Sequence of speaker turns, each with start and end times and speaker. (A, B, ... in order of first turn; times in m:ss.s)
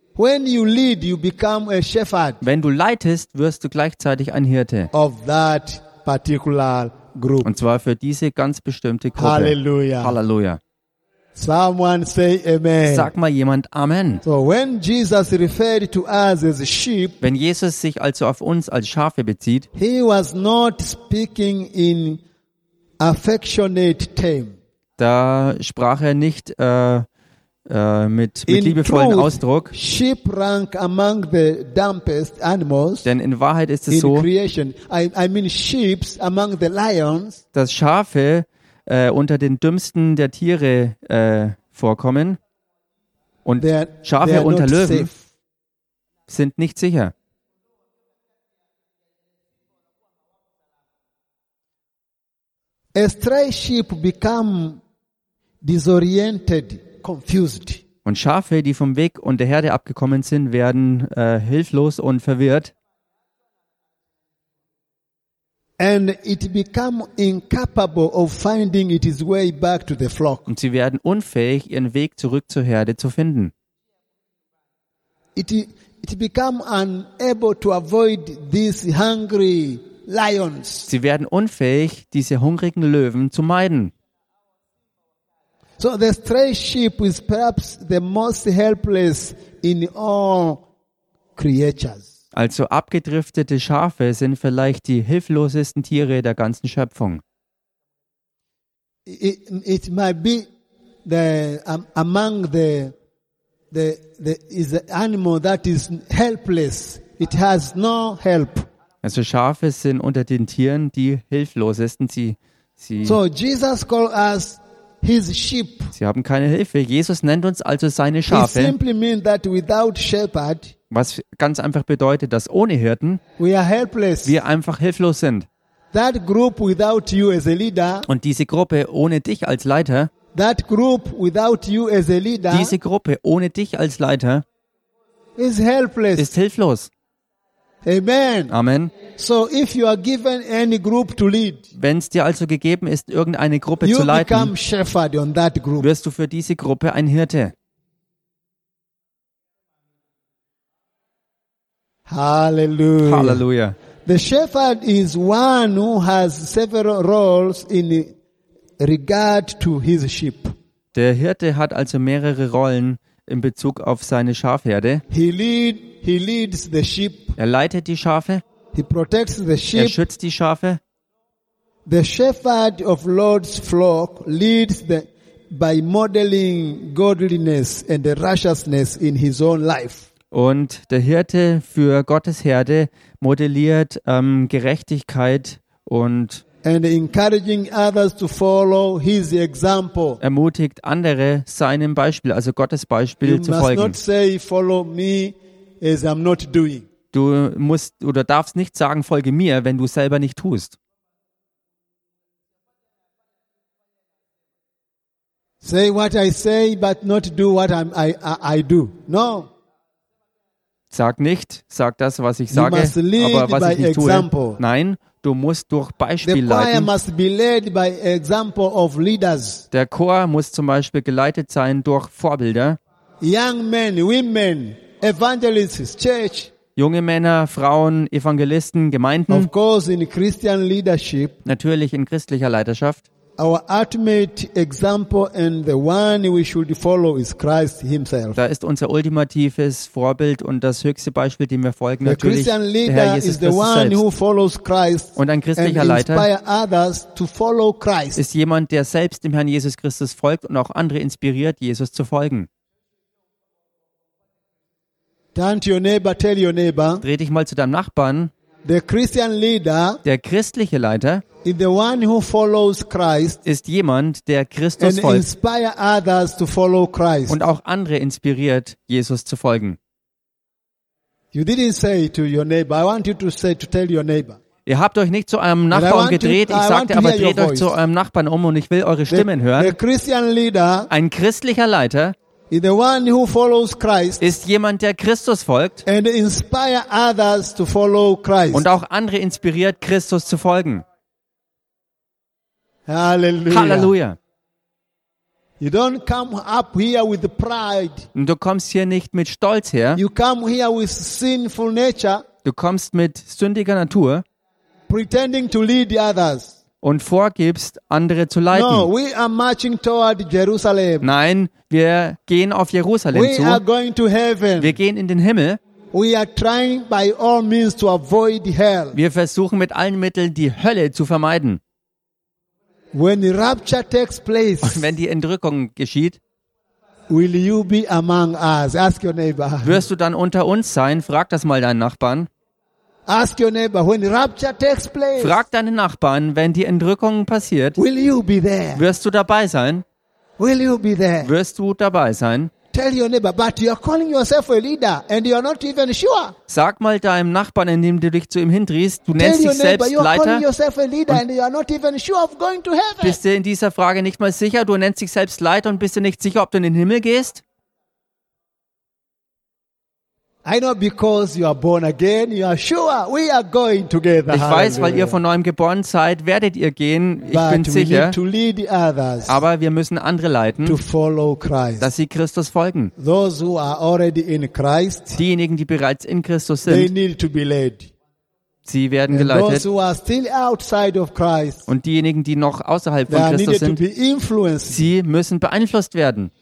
0:00.2-0:02.4 A
0:02.4-0:04.9 B
0:04.9-0:07.5 A
0:07.4-0:10.6 B
0:09.2-0:10.2 A
0:11.4-0:13.1 A
0:12.9-0:14.2 B
0:14.2-0:17.2 A
0:17.2-0:19.7 B
0:19.8-0:22.2 A
0:23.0-0:24.6 A
0:25.0-0:27.1 B
0:27.7-0:29.7 B
0:28.5-0:33.1 A
0:33.0-0:34.3 B
0:33.9-0:37.4 A
0:37.5-0:42.4 B
0:43.4-0:45.1 B
0:43.6-0:45.2 A
0:46.3-0:47.1 B
0:53.0-0:54.8 A
0:55.6-0:57.8 A
0:58.0-1:02.7 B
1:05.8-1:10.5 A
1:10.5-1:13.5 B
1:15.4-1:20.9 A
1:20.9-1:23.9 B
1:25.8-1:30.6 A
1:31.4-1:32.1 A
1:32.3-1:37.2 B
1:39.1-1:40.5 A
1:41.0-1:42.9 A
1:43.7-1:48.7 A
1:49.0-1:53.2 B
1:53.0-1:55.9 A
1:56.0-1:58.8 B
1:58.3-2:00.7 A
2:00.9-2:03.2 B
2:03.4-2:04.4 A
2:04.2-2:05.5 B
2:05.9-2:08.1 A
2:08.1-2:10.1 B
2:10.3-2:12.8 A
2:12.5-2:14.4 B
2:15.4-2:16.3 A
2:16.2-2:16.9 B
2:17.8-2:18.5 A
2:18.5-2:18.9 B
2:19.1-2:21.7 A
2:21.8-2:24.5 B
2:23.8-2:25.9 A
2:25.8-2:27.5 B
2:32.1-2:33.4 A
2:33.0-2:33.8 B
2:34.1-2:38.1 A
2:38.8-2:40.5 A
2:40.9-2:45.0 B
2:45.1-2:47.4 A
2:47.4-2:48.4 B
2:48.7-2:50.0 A
2:49.7-2:50.8 B
2:51.9-3:00.1 A
3:00.3-3:06.4 B
3:06.6-3:10.2 A
3:10.2-3:14.0 B
3:13.2-3:16.9 A
3:17.1-3:20.8 B
3:25.6-3:29.5 A
3:30.9-3:36.9 B
3:32.5-3:34.6 A
3:36.2-3:39.7 A
3:39.7-3:42.8 B
3:43.2-3:46.5 A
3:46.8-3:49.5 B
3:49.3-3:51.4 A
3:51.5-3:53.0 B
3:53.4-3:58.4 A
3:58.4-4:04.0 B
4:02.0-4:08.2 A
4:05.2-4:06.3 B
4:08.2-4:12.5 B
4:15.4-4:17.0 A
4:17.0-4:18.3 B
4:18.6-4:20.0 A
4:20.0-4:21.2 B
4:21.4-4:23.4 A
4:23.4-4:25.3 B
4:24.8-4:27.4 A
4:27.3-4:29.8 B
4:31.3-4:34.4 A
4:34.7-4:39.8 B
4:35.7-4:37.8 A
4:39.1-4:40.9 A
4:40.9-4:42.2 B
4:42.5-4:44.3 A
4:44.2-4:45.8 B
4:45.8-4:48.7 A
4:48.5-4:50.8 B
4:52.9-4:53.9 A
4:53.5-4:54.2 B
4:55.6-4:58.1 A
4:58.1-5:00.0 B
5:00.0-5:02.2 A
5:02.4-5:04.2 B
5:04.9-5:06.5 A
5:06.8-5:08.9 B
5:08.5-5:11.1 A
5:11.0-5:13.6 B
5:13.1-5:14.8 A
5:14.6-5:15.6 B
5:15.9-5:19.0 A
5:18.9-5:21.6 B
5:22.9-5:24.9 A
5:24.6-5:26.2 B
5:27.1-5:29.8 A
5:29.6-5:32.3 B
5:33.1-5:35.4 A
5:35.2-5:37.8 B
5:37.8-5:38.8 A
5:38.8-5:39.8 B
5:40.4-5:41.3 A
5:41.2-5:42.5 B
5:42.7-5:46.4 A
5:46.5-5:50.4 B
5:49.2-5:53.2 A
5:53.0-5:57.4 B
6:00.4-6:05.2 A
6:04.3-6:08.2 B
6:07.3-6:09.4 A
6:09.3-6:10.8 B
6:10.6-6:11.9 A
6:11.8-6:12.9 B
6:13.0-6:15.2 A
6:15.2-6:16.9 B
6:16.7-6:17.9 A
6:18.7-6:19.6 B
6:19.1-6:21.7 A
6:21.7-6:23.8 B
6:23.1-6:24.9 A
6:24.7-6:26.3 B